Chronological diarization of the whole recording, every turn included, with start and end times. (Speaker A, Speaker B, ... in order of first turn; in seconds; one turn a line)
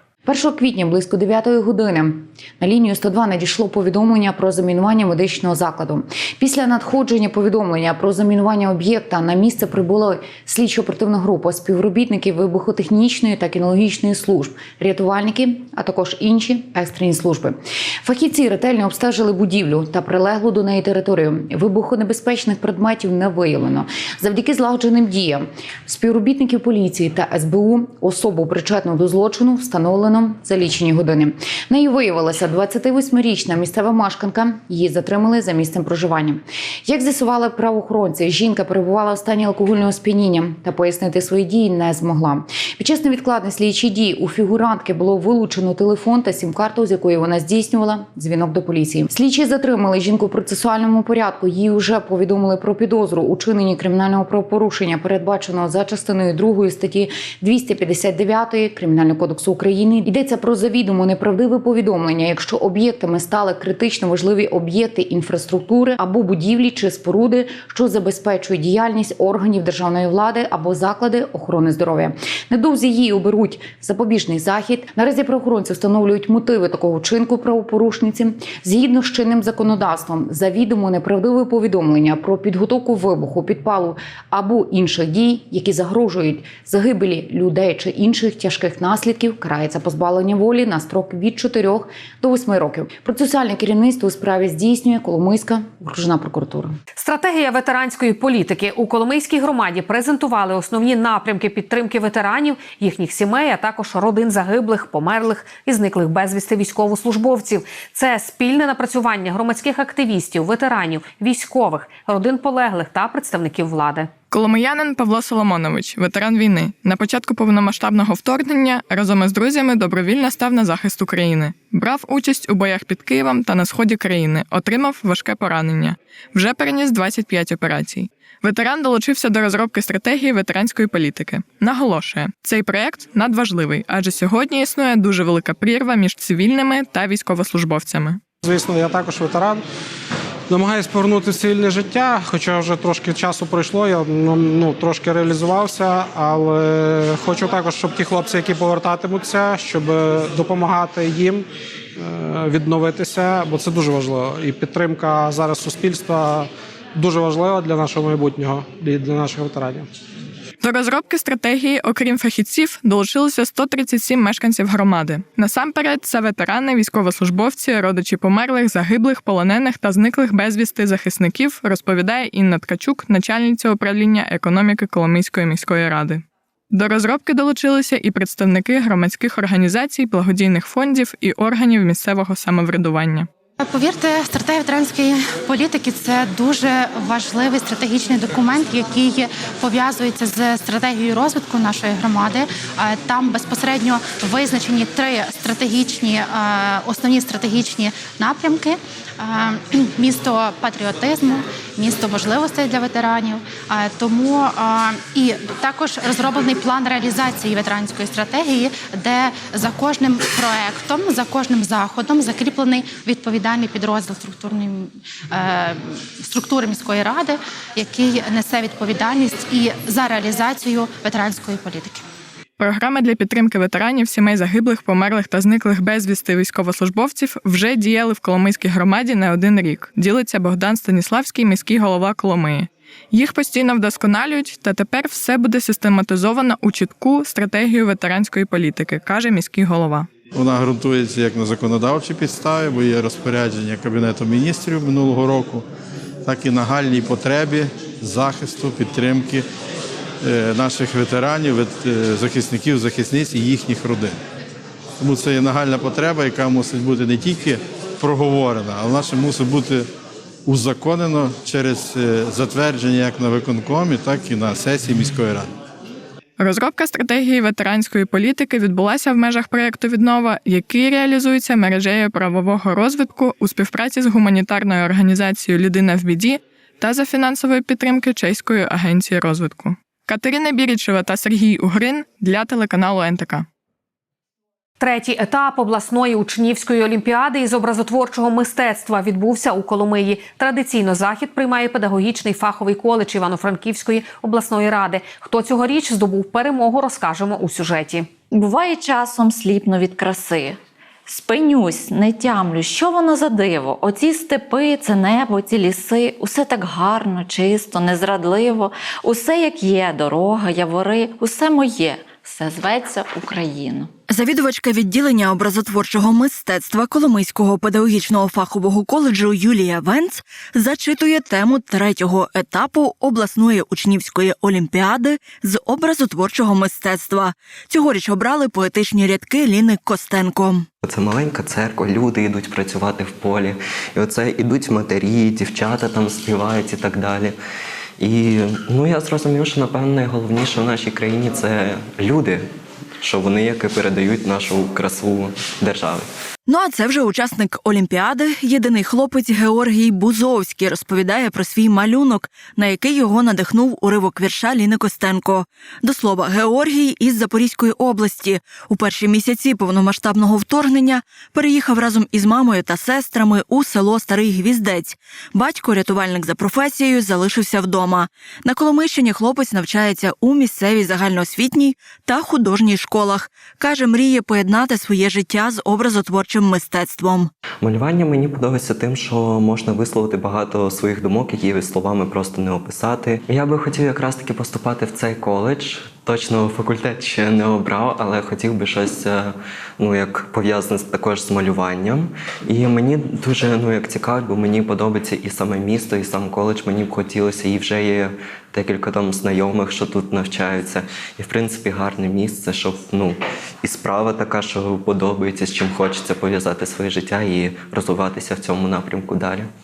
Speaker A: 0.2-96.8
Speaker B: 97.0-114.1
Speaker C: 114.3-138.2
Speaker D: 138.4-139.6
Speaker D: 140.5-159.9
Speaker C: 160.6-183.3
Speaker E: 183.6-222.0
Speaker C: 222.6-240.1
Speaker F: 240.3-245.6
Speaker F: 246.2-249.4
Speaker F: 250.2-254.2
Speaker F: 255.0-259.9
Speaker F: 260.4-265.5
Speaker C: 266.4-283.5
Speaker B: 284.8-298.1
Speaker G: 298.3-313.9
Speaker H: 314.1-330.6
Speaker I: 330.8-337.4
Speaker I: 338.0-342.5
Speaker I: 343.0-346.1
Speaker H: 346.5-377.3
Speaker I: 377.6-409.5